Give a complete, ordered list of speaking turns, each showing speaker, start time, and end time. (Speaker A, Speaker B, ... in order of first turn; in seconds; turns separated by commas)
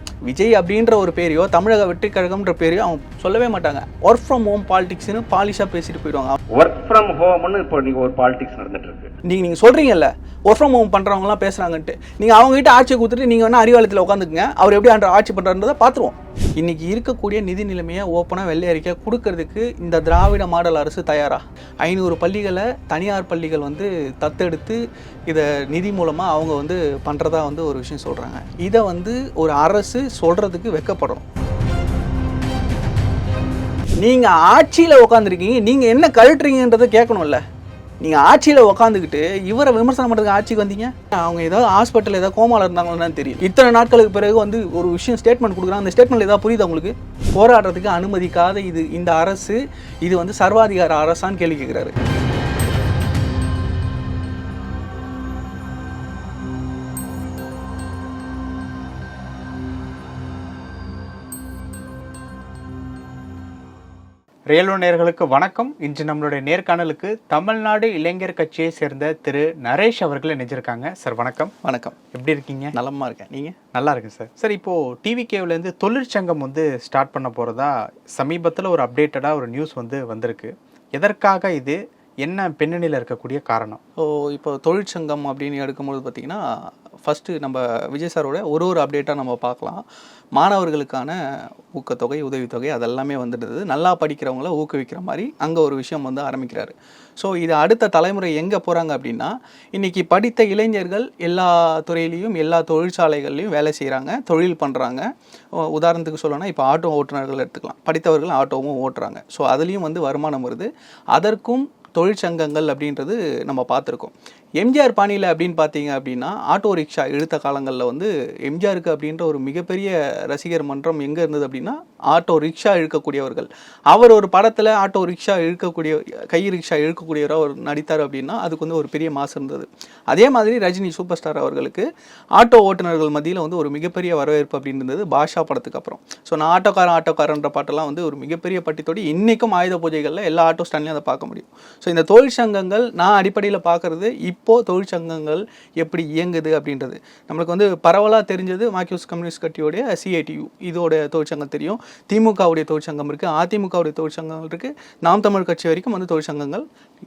Speaker A: 0.3-6.4, Speaker B: 6.5-9.1, Speaker A: 9.2-31.2, Speaker A: 34.0-37.4, Speaker A: 38.0-51.9, Speaker C: 64.5-71.5, Speaker A: 71.6-72.0, Speaker C: 72.1-72.7, Speaker A: 72.7-73.5, Speaker C: 73.7-83.8, Speaker A: 84.0-86.4, Speaker A: 87.0-89.8, Speaker A: 90.4-91.2, Speaker A: 91.7-105.0, Speaker A: 105.6-156.6